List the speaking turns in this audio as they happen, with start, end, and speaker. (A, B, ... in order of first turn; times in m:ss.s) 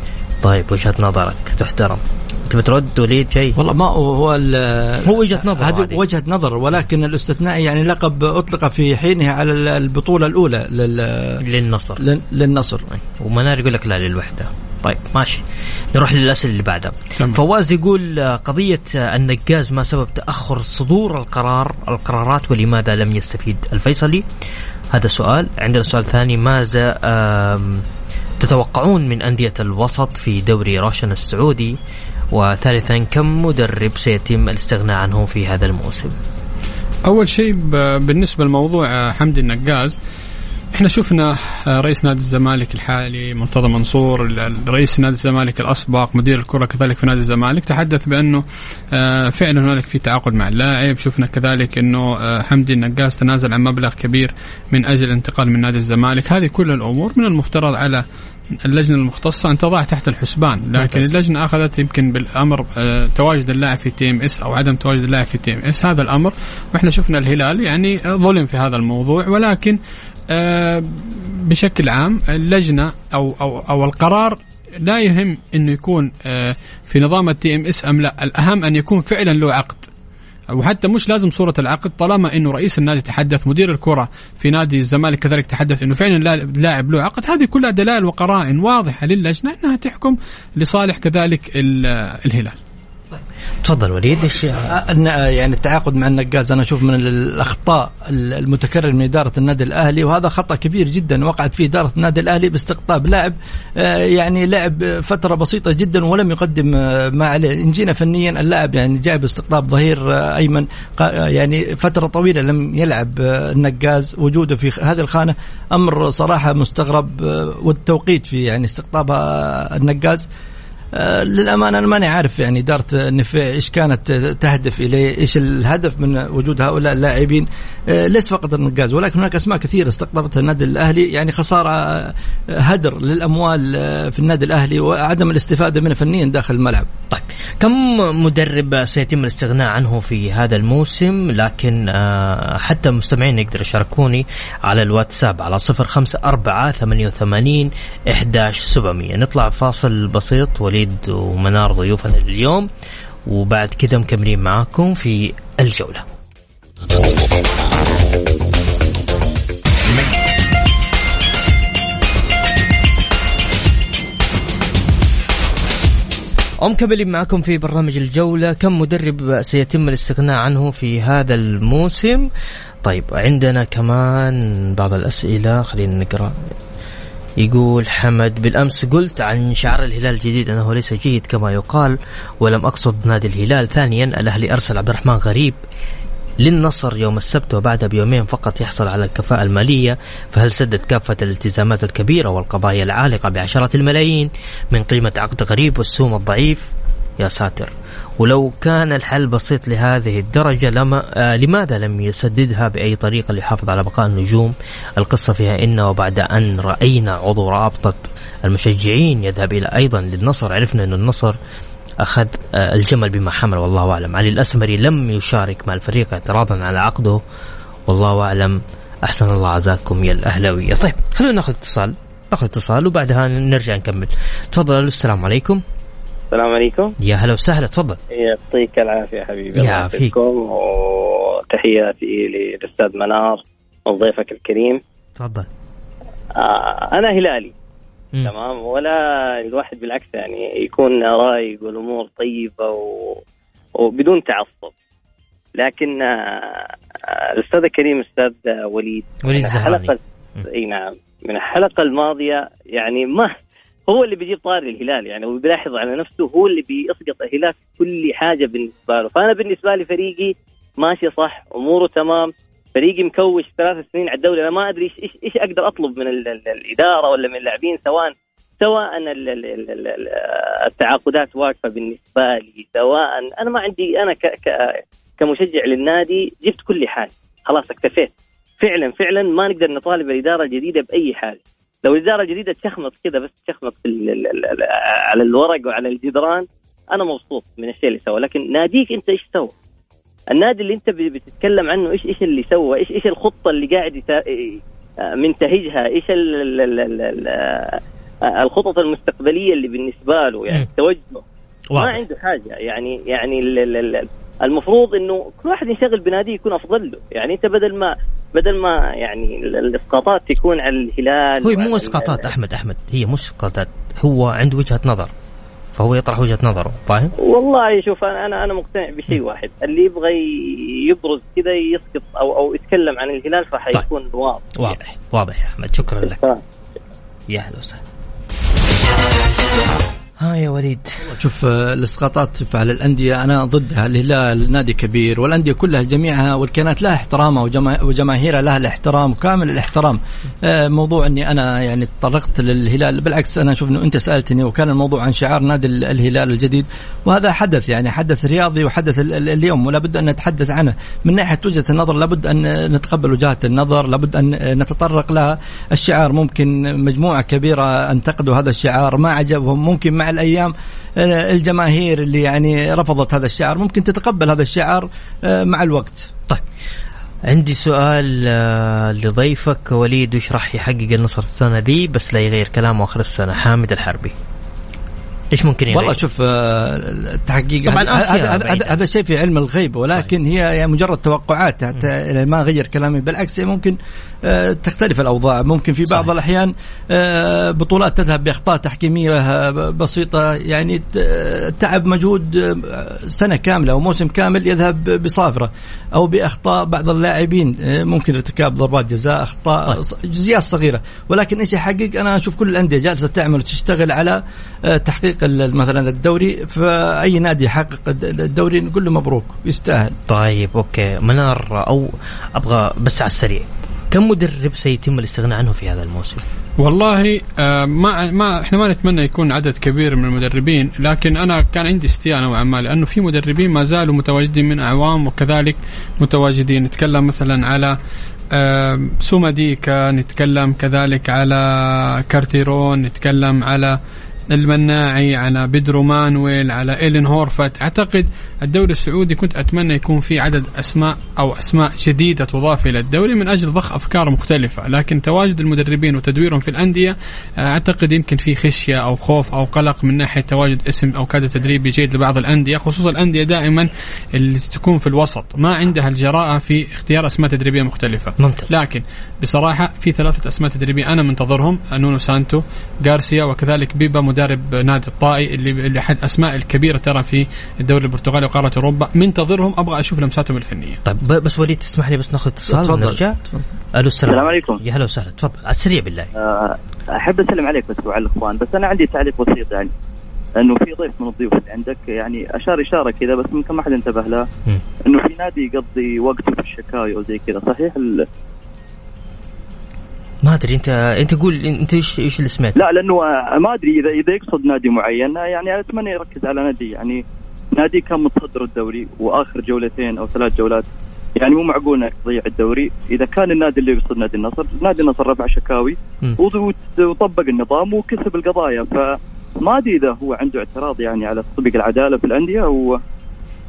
0:00.4-0:03.6 A
0:03.6-0:11.4 B
0:05.0-0:06.0 A
0:11.4-0:12.0 A
0:12.0-0:12.8 B
0:13.0-0:24.2 A
0:24.9-0:27.8 A
0:28.4-0:31.7 A
0:32.3-0:36.1 A
0:37.0-0:39.9 C
0:40.7-0:58.0 C
0:58.6-1:09.8 C
1:00.8-1:01.1 A
1:10.3-1:19.9 C
1:20.5-1:32.5 C
1:33.6-1:34.7 A
1:34.6-2:00.3 B
2:00.9-2:16.9 B
2:17.1-2:32.7 A
2:33.3-2:36.0 A
2:46.6-2:52.3 A
2:52.8-2:56.4 A
2:57.4-3:05.6 A
3:06.4-3:31.4 A
3:32.0-3:37.2 A
3:37.9-3:45.6 A
3:46.3-3:46.9 D
3:47.0-3:48.0 A
3:48.1-3:54.8 D
3:49.5-3:50.2 A
3:55.2-3:55.5 A
3:56.4-3:57.5 D
3:58.2-4:03.2 D
4:03.8-4:04.7 D
4:05.6-4:13.4 D
4:09.2-4:10.5 A
4:13.9-4:49.5 D
4:50.3-4:54.6 D
4:55.2-4:57.8 D
4:58.4-5:01.2 D
5:01.7-5:02.0 A
5:01.7-5:12.3 D
5:11.4-5:15.1 A
5:15.8-5:17.1 A
5:17.2-5:24.8 D
5:24.6-5:26.2 A
5:26.0-5:26.4 D
5:27.3-5:27.8 A
5:30.2-5:31.1 A
5:31.1-6:06.1 B
6:07.3-6:14.1 A
6:15.3-6:16.0 A
6:15.7-6:49.9 B
6:17.6-6:18.8 A
6:50.1-6:56.2 A
6:56.6-7:07.8 C
7:08.3-7:13.8 C
7:14.3-7:50.8 C
7:38.2-7:38.5 A
7:50.8-7:53.2 A
7:52.5-7:53.4 B
7:53.7-7:56.1 A
7:54.1-7:54.6 E
7:56.2-7:59.7 E
8:00.4-8:04.2 E
8:04.9-8:08.0 E
8:10.2-8:12.6 A
8:12.6-8:17.0 E
8:17.6-8:20.6 E
8:21.2-8:32.8 E